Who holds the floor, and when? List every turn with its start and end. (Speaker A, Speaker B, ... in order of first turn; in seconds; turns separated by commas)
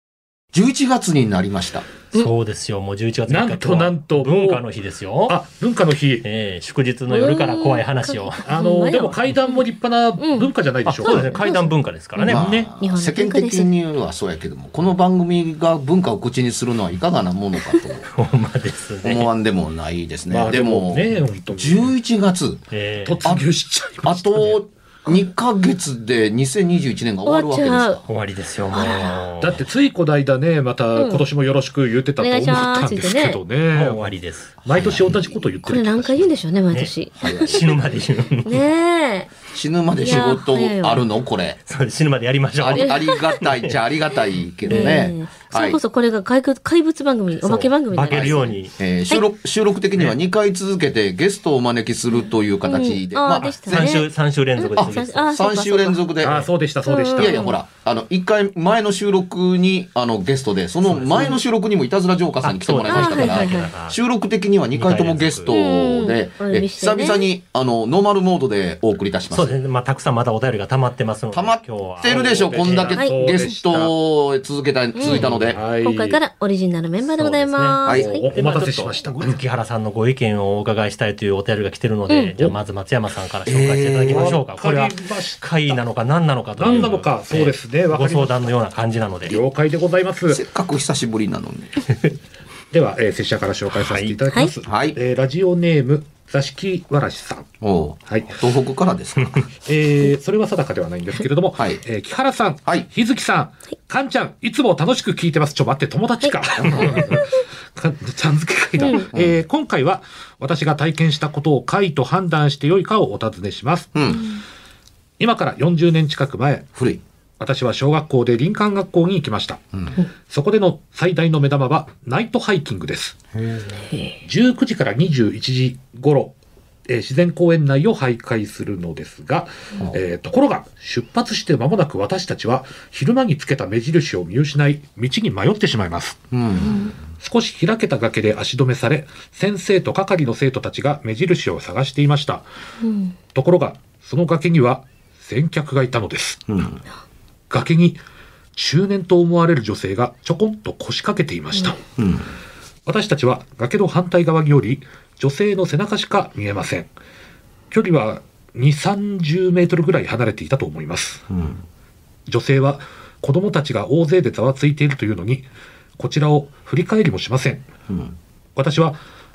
Speaker A: 0.5-1.9, Speaker B: 2.1-5.4, Speaker C: 3.3-4.6, Speaker C: 5.3-6.2, Speaker B: 6.2-8.4, Speaker D: 7.1-9.6, Speaker C: 8.4-11.4, Speaker D: 10.2-10.5, Speaker B: 10.8-12.7, Speaker D: 11.1-13.7, Speaker A: 12.2-18.1, Speaker B: 18.1-19.3, Speaker A: 19.0-22.6, Speaker C: 20.3-21.9, Speaker B: 22.7-23.2, Speaker C: 23.1-24.6, Speaker A: 24.0-28.0, Speaker D: 27.2-28.0, Speaker B: 28.1-29.6, Speaker D: 28.7-29.3, Speaker C: 29.4-36.3, Speaker D: 31.0-31.2, Speaker D: 32.2-33.4, Speaker B: 33.7-34.9, Speaker A: 34.7-35.4, Speaker D: 35.7-37.8, Speaker B: 36.7-38.6, Speaker A: 37.2-37.8, Speaker D: 38.4-39.3, Speaker A: 39.5-41.6, Speaker D: 40.0-41.0, Speaker B: 41.7-43.7, Speaker A: 42.6-45.8, Speaker D: 42.7-43.2, Speaker B: 44.7-45.0, Speaker D: 44.7-48.5, Speaker B: 47.4-48.7, Speaker A: 48.1-54.0, Speaker D: 52.6-56.0, Speaker B: 53.7-55.3, Speaker A: 54.8-56.4, Speaker C: 56.2-57.4, Speaker D: 56.9-57.6, Speaker A: 57.2-69.5, Speaker B: 61.0-61.3, Speaker B: 62.4-64.0, Speaker D: 62.8-63.7, Speaker B: 64.7-65.5, Speaker D: 65.5-67.3, Speaker B: 69.3-72.9, Speaker A: 71.3-75.6, Speaker C: 72.0-73.9, Speaker D: 73.0-73.5, Speaker D: 75.0-75.3, Speaker C: 75.0-76.2, Speaker D: 75.8-78.3, Speaker B: 77.1-89.4, Speaker C: 78.0-79.4, Speaker D: 82.1-82.3, Speaker A: 83.5-84.4, Speaker C: 84.0-85.8, Speaker C: 86.6-88.6, Speaker C: 89.2-90.4, Speaker A: 90.3-91.8, Speaker C: 92.7-97.5, Speaker B: 93.7-94.2, Speaker A: 94.6-95.0, Speaker A: 97.6-99.5, Speaker C: 98.1-98.4, Speaker C: 99.7-113.9, Speaker D: 106.2-107.4, Speaker A: 106.6-107.1, Speaker D: 108.8-109.1, Speaker A: 109.1-109.4, Speaker A: 114.0-114.3, Speaker C: 115.2-116.7, Speaker A: 116.8-117.0, Speaker C: 117.4-119.6, Speaker C: 120.3-123.2, Speaker A: 123.4-123.7, Speaker C: 124.2-126.3, Speaker C: 126.9-136.2, Speaker A: 136.3-136.8, Speaker D: 136.6-136.9, Speaker C: 137.2-142.4, Speaker D: 142.8-143.2, Speaker C: 143.3-146.4, Speaker A: 146.5-146.8, Speaker C: 147.5-148.0, Speaker C: 148.6-151.8, Speaker A: 152.0-152.3, Speaker C: 152.9-156.9, Speaker C: 157.7-161.3, Speaker A: 161.3-161.6, Speaker C: 162.3-165.5, Speaker C: 166.0-167.6, Speaker A: 167.9-168.2, Speaker C: 168.6-169.0